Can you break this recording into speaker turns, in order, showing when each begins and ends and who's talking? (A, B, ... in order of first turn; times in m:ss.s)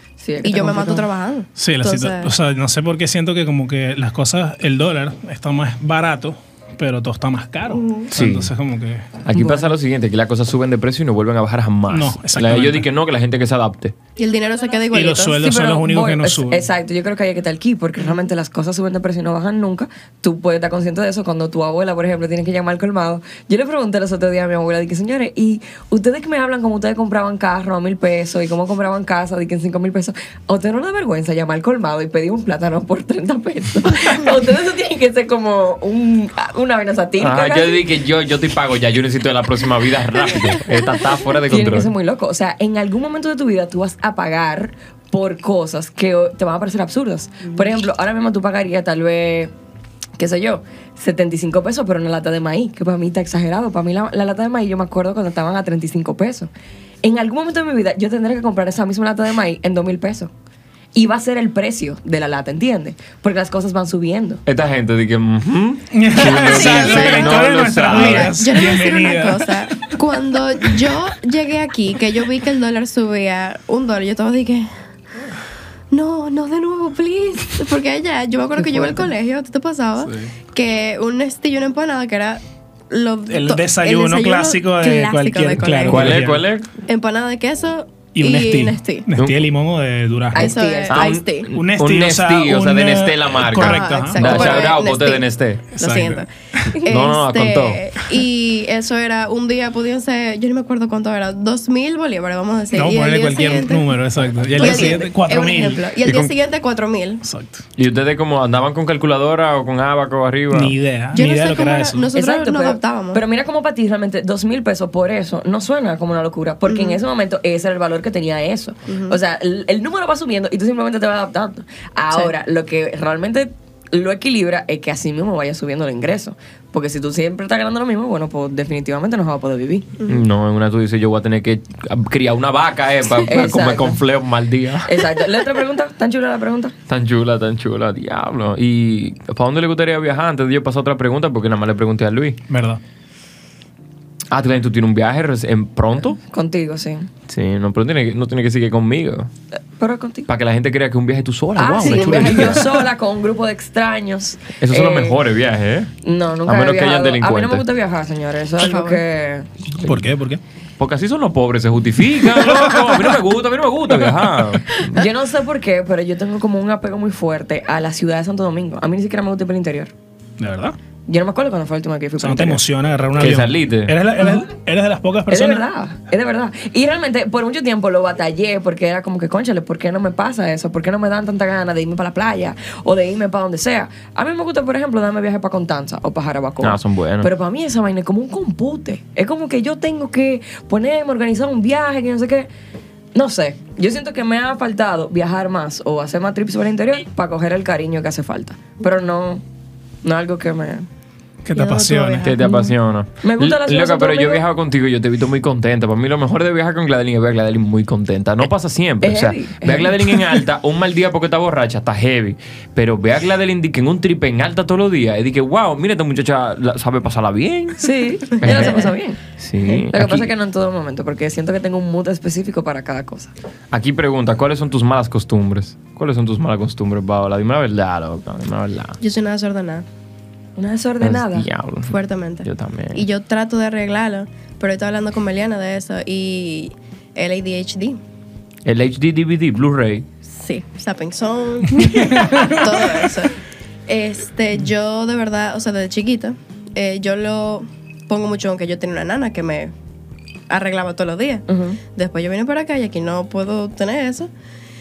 0:00.2-0:01.1 A
0:00.4-0:02.3 B
0:01.6-0:09.1 C
0:07.7-0:08.1 B
0:08.1-0:08.5 D
0:09.2-0:13.9 D
0:09.3-0:09.7 A
0:11.9-0:12.9 C
0:14.2-0:15.4 B
0:14.9-0:16.6 C
0:15.3-0:37.8 A
0:37.2-0:41.9 D
0:41.2-0:49.5 A
0:50.2-0:56.5 A
0:57.0-1:00.3 A
1:00.9-1:04.4 A
1:04.4-1:08.3 D
1:05.9-1:10.0 C
1:06.5-1:14.7 B
1:10.6-1:11.0 C
1:15.9-1:26.2 B
1:18.6-1:19.1 A
1:20.0-1:20.3 C
1:23.3-1:26.4 C
1:25.8-1:26.7 D
1:26.8-1:29.1 B
1:28.1-1:30.5 C
1:29.2-1:29.4 D
1:30.3-1:31.1 A
1:30.3-1:31.5 B
1:30.9-1:35.7 D
1:31.5-1:34.7 C
1:33.6-1:35.2 B
1:35.8-1:43.9 B
1:35.8-1:36.7 C
1:36.8-1:37.9 D
1:42.7-1:46.3 C
1:44.2-1:44.8 D
1:44.5-1:47.2 B
1:44.6-1:45.1 A
1:47.2-1:47.6 C
1:47.8-1:50.7 D
1:50.5-1:52.1 C
1:51.1-1:53.2 B
1:52.1-2:09.9 A
1:56.6-1:57.0 B
1:58.8-1:59.2 B
2:10.0-2:14.9 D
2:13.1-2:14.0 A
2:14.8-2:16.7 A
2:16.9-2:22.4 D
2:22.5-2:22.8 C
2:24.3-2:26.2 D
2:26.2-2:27.1 A
2:27.3-2:29.3 D
2:29.8-2:30.3 A
2:30.3-2:32.6 D
2:31.6-2:35.2 A
2:31.6-2:32.7 C
2:31.9-2:32.3 B
2:34.6-2:35.9 D
2:36.0-2:39.5 A
2:36.4-2:37.6 D
2:38.6-2:39.0 B
2:39.8-2:40.4 C
2:40.8-2:45.0 D
2:44.8-2:49.9 A
2:50.4-2:50.8 C
2:51.1-2:52.6 A
2:52.2-2:55.7 C
2:53.2-2:54.0 D
2:55.3-3:12.5 A
3:06.6-3:07.3 D
3:13.1-3:19.4 A
3:20.0-3:20.9 A
3:21.4-3:22.3 C
3:21.5-3:22.4 B
3:22.2-3:40.3 D
3:22.4-3:24.4 A
3:29.0-3:30.4 A
3:37.8-3:43.3 A
3:38.4-3:38.9 B
3:43.7-3:49.0 D
3:49.0-3:49.8 B
3:50.6-3:51.5 A
3:51.0-3:51.9 D
3:51.8-3:58.0 B
3:52.4-3:53.0 D
3:58.6-4:00.1 D
4:00.2-4:03.4 B
4:03.9-4:09.7 B
4:10.5-4:14.3 B
4:11.5-4:11.8 A